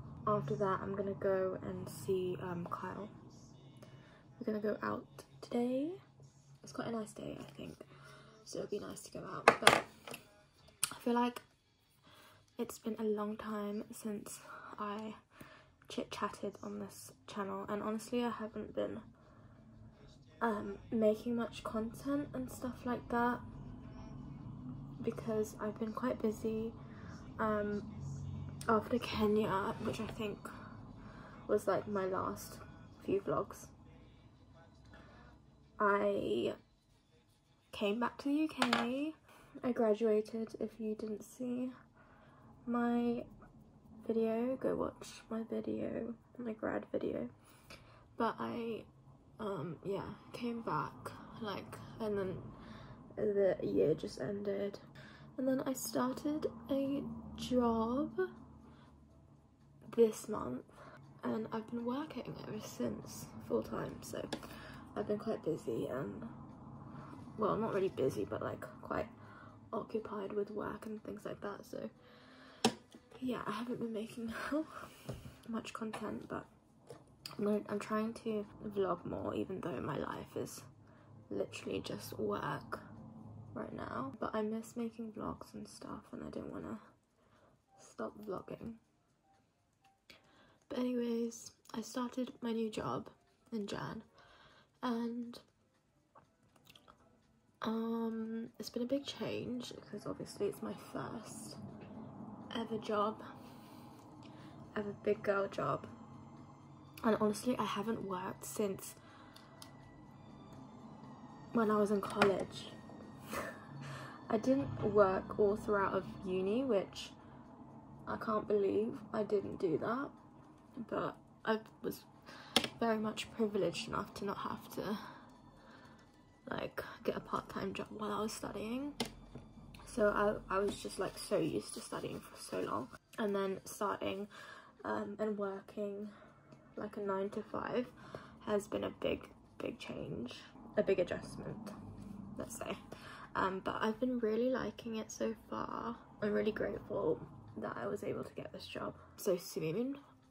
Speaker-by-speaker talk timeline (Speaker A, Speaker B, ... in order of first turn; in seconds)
Speaker A: 0.2-3.1, 4.4-6.0, 6.6-7.8, 8.5-9.9, 10.9-11.4, 12.6-15.2, 15.9-19.0, 20.4-23.4, 25.0-26.8, 27.4-27.9, 28.7-30.5, 31.5-33.7, 35.8-36.5, 37.7-41.7, 42.6-43.2, 44.0-47.3, 48.2-48.9, 49.4-52.5, 53.1-54.8, 55.4-58.3, 59.9-60.7, 61.2-64.3, 65.0-66.3, 67.4-69.1, 69.7-71.9, 73.1-74.7, 75.5-76.5, 77.4-80.6, 81.3-82.8, 83.5-86.8, 87.8-88.8, 90.7-94.0, 94.8-95.4, 97.6-101.6, 102.5-103.2, 104.7-105.9, 107.0-109.0, 111.5-112.7, 114.3-117.1, 118.0-120.1, 120.8-122.1, 122.8-125.0, 126.5-129.0, 129.8-134.3, 134.8-136.1, 136.8-137.9, 138.4-141.7, 142.4-142.8, 143.3-150.0